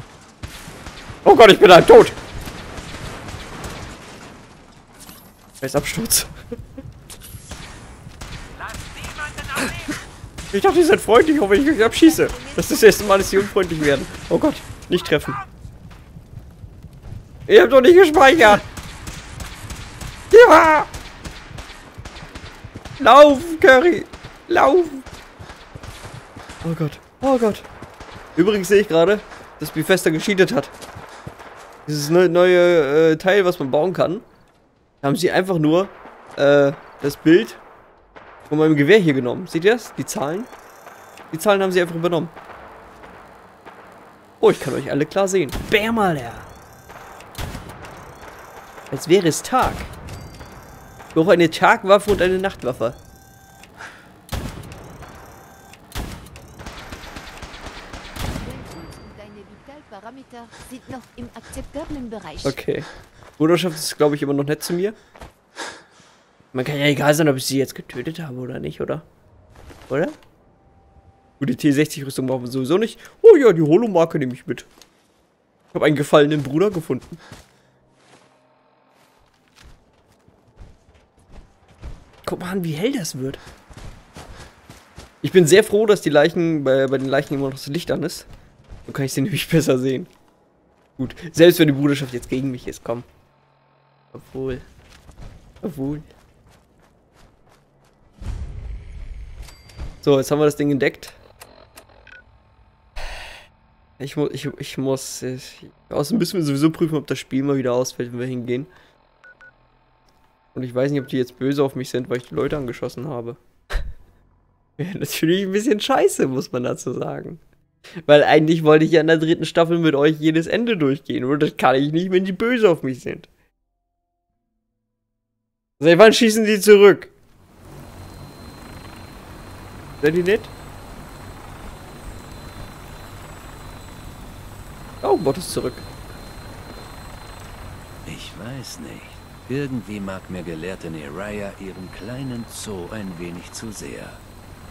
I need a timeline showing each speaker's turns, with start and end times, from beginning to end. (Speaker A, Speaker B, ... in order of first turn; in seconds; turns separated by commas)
Speaker A: 1.2-2.2, Speaker A: 5.6-6.3, Speaker A: 9.5-9.9, Speaker A: 10.5-15.4, Speaker B: 11.8-13.0, Speaker A: 17.5-18.6, Speaker A: 20.3-20.9, Speaker A: 23.0-25.1, Speaker A: 26.6-27.7, Speaker A: 28.4-30.7, Speaker A: 31.9-34.2, Speaker A: 35.0-37.6, Speaker A: 38.5-40.5, Speaker A: 41.3-42.3, Speaker A: 44.4-46.5, Speaker A: 48.9-49.9, Speaker A: 51.1-53.0, Speaker B: 58.3-62.6, Speaker A: 62.4-62.9, Speaker A: 63.4-65.0, Speaker A: 66.5-69.0, Speaker A: 69.9-70.2, Speaker A: 71.4-74.7, Speaker A: 75.7-77.2, Speaker A: 82.2-83.4, Speaker A: 85.2-88.3, Speaker A: 88.9-90.1, Speaker A: 91.0-93.1, Speaker A: 94.1-94.7, Speaker A: 95.6-96.1, Speaker A: 100.0-101.2, Speaker A: 104.0-108.7, Speaker A: 110.5-113.4, Speaker A: 114.8-117.4, Speaker A: 118.0-123.3, Speaker A: 125.8-127.1, Speaker A: 130.0-130.5, Speaker A: 135.0-135.9, Speaker C: 138.1-144.2